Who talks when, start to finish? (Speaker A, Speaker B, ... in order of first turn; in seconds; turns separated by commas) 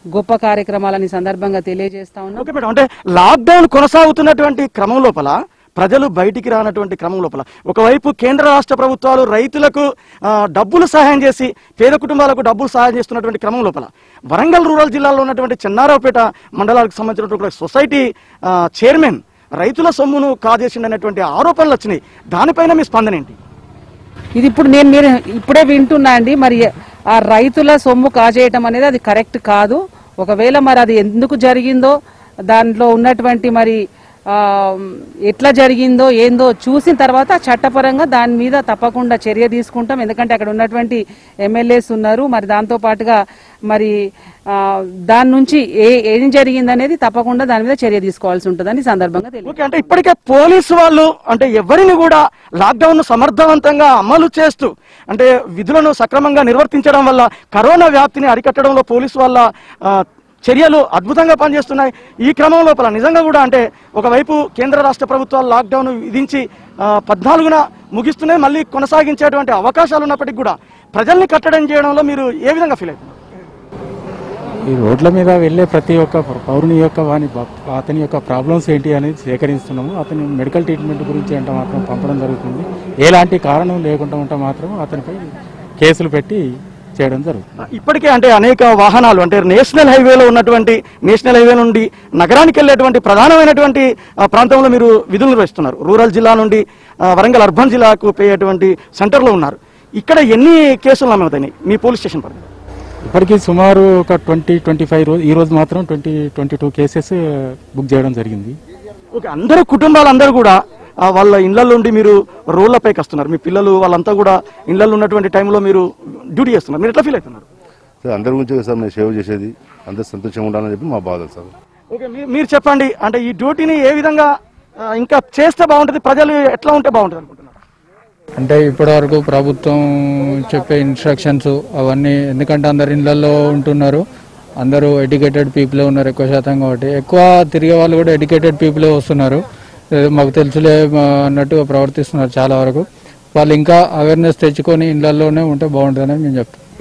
Speaker A: 0.1-2.5, Speaker B: 2.4-23.4, Speaker A: 24.4-31.9, Speaker A: 32.5-43.2, Speaker A: 44.5-49.6, Speaker B: 49.5-73.2, Speaker C: 74.7-87.4, Speaker B: 87.7-102.5, Speaker C: 103.0-108.6, Speaker B: 109.1-117.5, Speaker D: 118.0-121.5, Speaker B: 121.9-124.3, Speaker B: 124.9-127.5, Speaker E: 128.4-134.1, Speaker E: 134.6-146.6